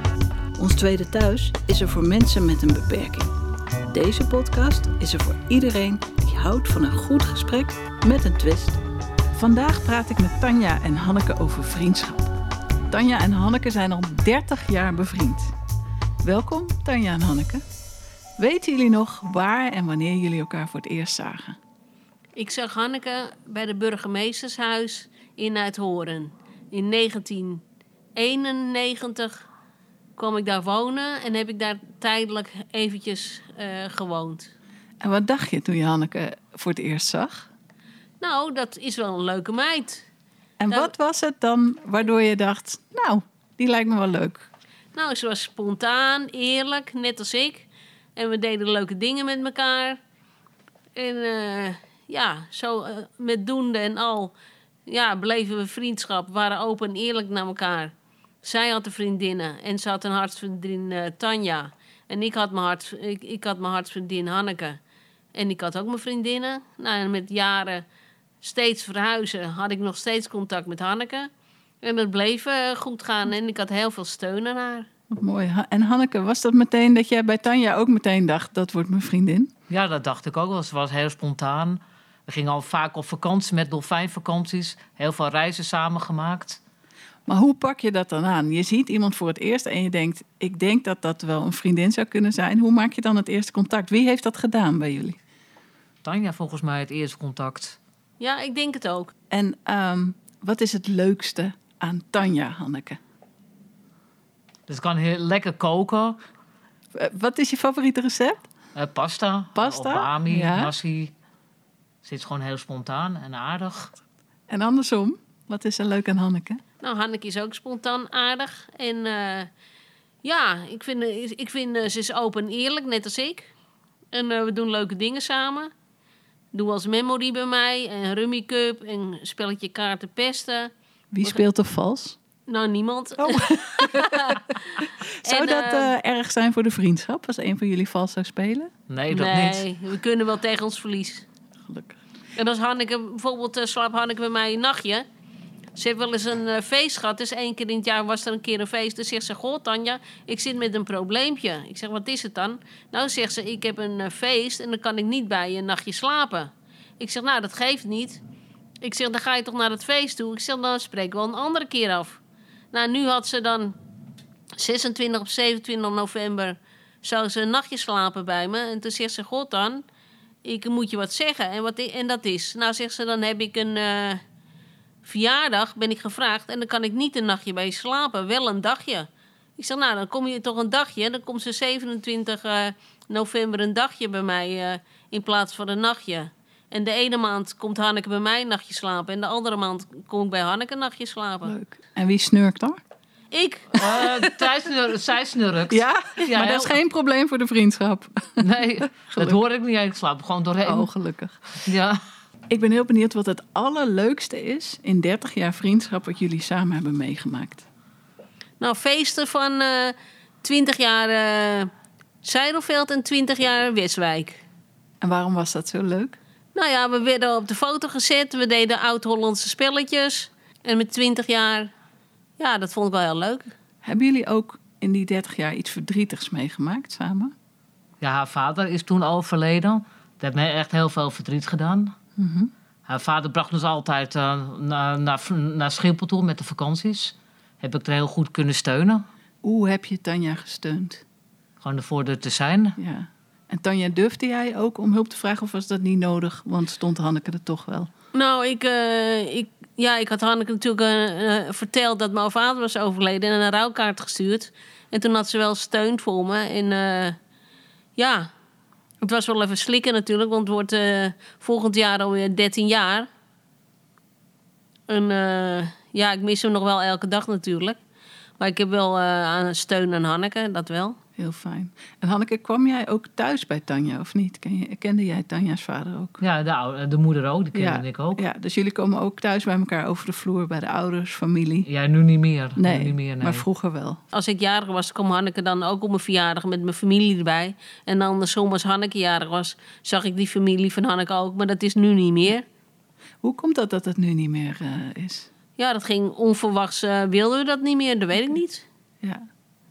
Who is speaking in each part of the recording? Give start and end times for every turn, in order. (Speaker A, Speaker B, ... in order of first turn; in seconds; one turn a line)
Speaker A: 0.6-3.3
Speaker A: 3.9-8.8
Speaker A: 9.3-12.3
Speaker A: 12.9-15.5
Speaker A: 16.2-17.6
Speaker A: 18.4-21.6
Speaker B: 22.4-27.6
Speaker B: 28.1-29.4
Speaker B: 30.2-34.5
Speaker A: 35.0-37.5
Speaker B: 38.2-40.0
Speaker A: 40.6-44.5
Speaker B: 44.9-50.0
Speaker B: 51.0-54.4
Speaker B: 54.9-64.8
Speaker B: 65.3-67.9
Speaker B: 68.4-71.3
Speaker B: 71.8-74.9
Speaker A: 75.1-79.5
Speaker C: 79.7-86.6
Speaker A: 87.3-95.2
Speaker C: 96.0-97.8
Speaker B: 98.2-99.1
Speaker A: 99.3-103.0
Speaker C: 104.7-106.2
Speaker A: 107.0-108.5
Speaker C: 108.8-111.1
Speaker A: 109.6-110.7
Speaker C: 112.0-113.9
Speaker A: 114.5-116.6
Speaker B: 116.8-119.5
Speaker B: 120.2-123.5
Speaker B: 124.1-125.7
Speaker B: 126.5-130.7
Speaker A: 131.1-132.2
Speaker B: 132.5-134.4
Speaker A: 133.2-138.7
Speaker B: 135.2-135.9
Speaker C: 138.9-139.7
Speaker B: 139.1-141.2
Speaker A: 141.7-142.0
Speaker B: 142.4-145.1
Speaker B: 145.8-158.2
Speaker B: 158.8-162.2
Speaker B: 162.7-163.8
Speaker B: 164.6-169.8
Speaker B: 170.4-174.2
Speaker B: 175.0-191.6
Speaker A: 191.4-192.8
Speaker B: 193.3-193.9
Speaker C: 193.8-196.8
Speaker A: 193.8-194.2
Speaker A: 195.7-198.5
Speaker C: 198.4-200.9
Speaker A: 199.0-199.4
Speaker A: 200.6-201.4
Speaker C: 201.6-202.0
Speaker A: 202.5-207.7
Speaker B: 208.6-211.7
Speaker B: 212.2-214.4
Speaker A: 215.0-216.2
Speaker B: 216.5-221.7
Speaker B: 222.4-223.5
Speaker A: 223.8-227.3
Speaker C: 228.0-231.9
Speaker A: 232.2-232.5
Speaker C: 232.9-239.1
Speaker A: 239.4-241.0
Speaker C: 241.6-242.8
Speaker A: 242.8-247.9
Speaker B: 248.1-257.2
Speaker B: 258.0-258.3
Speaker B: 259.0-263.1
Speaker B: 264.9-267.8
Speaker B: 268.4-271.0
Speaker A: 271.2-276.2
Speaker C: 276.2-278.2
Speaker A: 277.5-281.7
Speaker C: 281.6-283.4
Speaker A: 282.6-284.0
Speaker B: 284.1-292.4
Speaker A: 293.2-295.3
Speaker B: 295.6-298.6